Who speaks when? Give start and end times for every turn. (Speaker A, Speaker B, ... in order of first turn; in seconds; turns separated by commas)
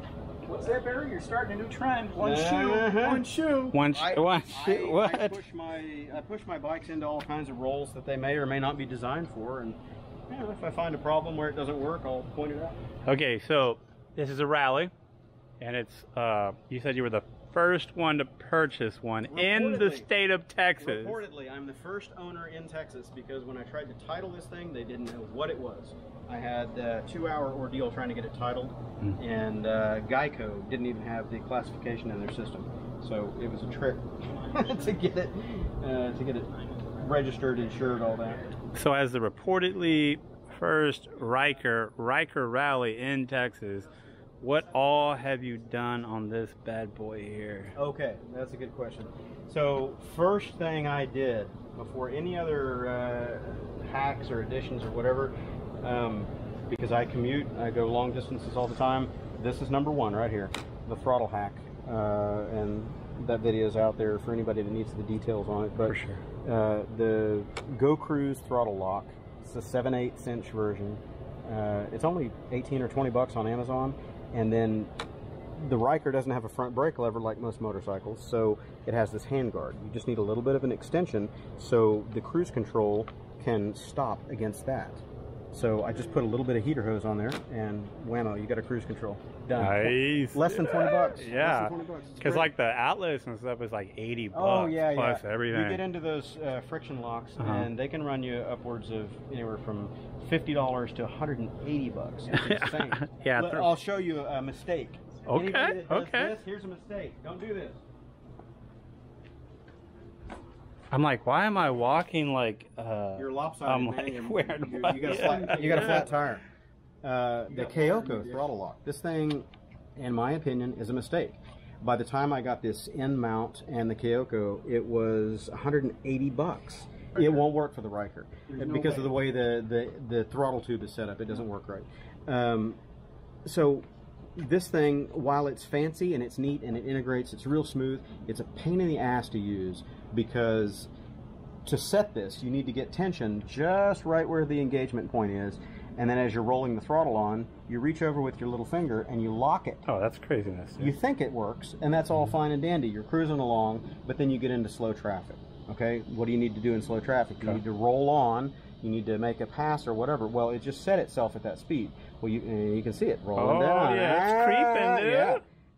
Speaker A: 0.4-3.8, Speaker B: 2.1-3.2, Speaker C: 3.7-5.4, Speaker B: 3.9-12.8, Speaker C: 13.1-14.9, Speaker C: 15.6-21.2, Speaker B: 19.3-20.1, Speaker B: 20.8-38.5, Speaker C: 38.7-43.9, Speaker C: 44.4-47.8, Speaker B: 47.7-74.9, Speaker C: 65.8-66.2, Speaker B: 75.5-92.5, Speaker C: 89.6-95.8, Speaker B: 94.3-107.8, Speaker C: 97.4-97.7, Speaker C: 102.3-103.7, Speaker C: 105.3-106.3, Speaker C: 110.9-116.1, Speaker B: 113.2-116.4, Speaker B: 117.0-132.8, Speaker A: 128.5-129.1, Speaker B: 133.4-140.9, Speaker B: 141.6-149.8, Speaker C: 149.9-150.9, Speaker B: 150.8-165.4, Speaker C: 163.4-165.4